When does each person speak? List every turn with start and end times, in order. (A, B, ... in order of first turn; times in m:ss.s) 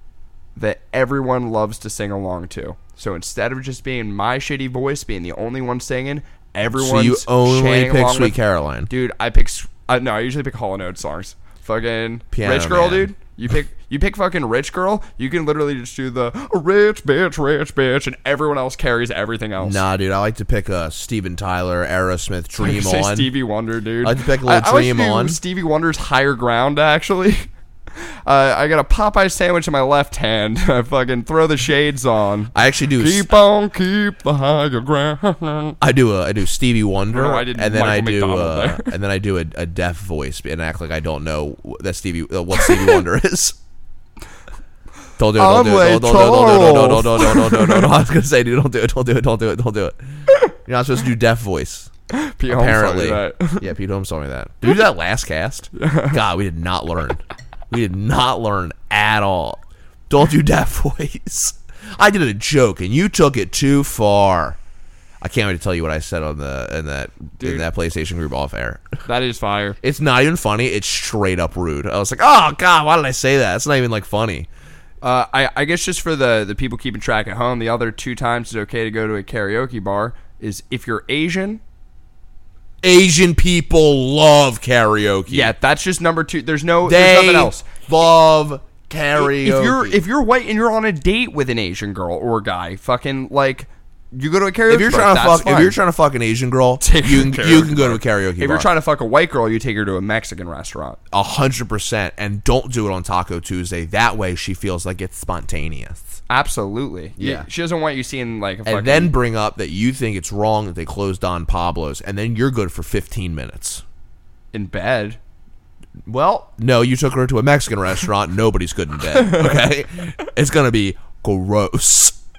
0:00.6-0:08.4 A
0:06.8-0:08.9 B
0:08.9-0:19.8 A
0:12.3-0:13.1 B
0:19.6-0:23.3 B
0:22.6-0:27.5 A
0:24.0-0:25.4 B
0:28.2-0:35.8 A
0:32.5-0:33.3 B
0:35.8-0:43.6 B
0:37.1-0:38.9 A
0:45.2-0:50.0 B
0:45.4-0:47.9 A
0:50.6-0:51.9 B
0:52.1-0:53.7 A
0:52.5-1:04.6 B
0:55.8-0:56.2 A
1:05.2-1:08.9 B
1:07.4-1:07.7 A
1:09.0-1:09.8 A
1:09.8-1:14.5 B
1:15.0-1:21.6 A
1:22.8-1:25.5 B
1:25.3-1:27.7 A
1:26.8-1:30.0 B
1:29.2-1:35.8 A
1:34.7-1:38.7 B
1:36.8-1:41.0 A
1:41.1-1:46.2 B
1:46.3-1:49.1 A
1:47.2-1:47.5 B
1:48.7-1:53.8 B
1:54.5-1:55.2 A
1:56.1-2:02.2 B
1:59.2-1:59.6 A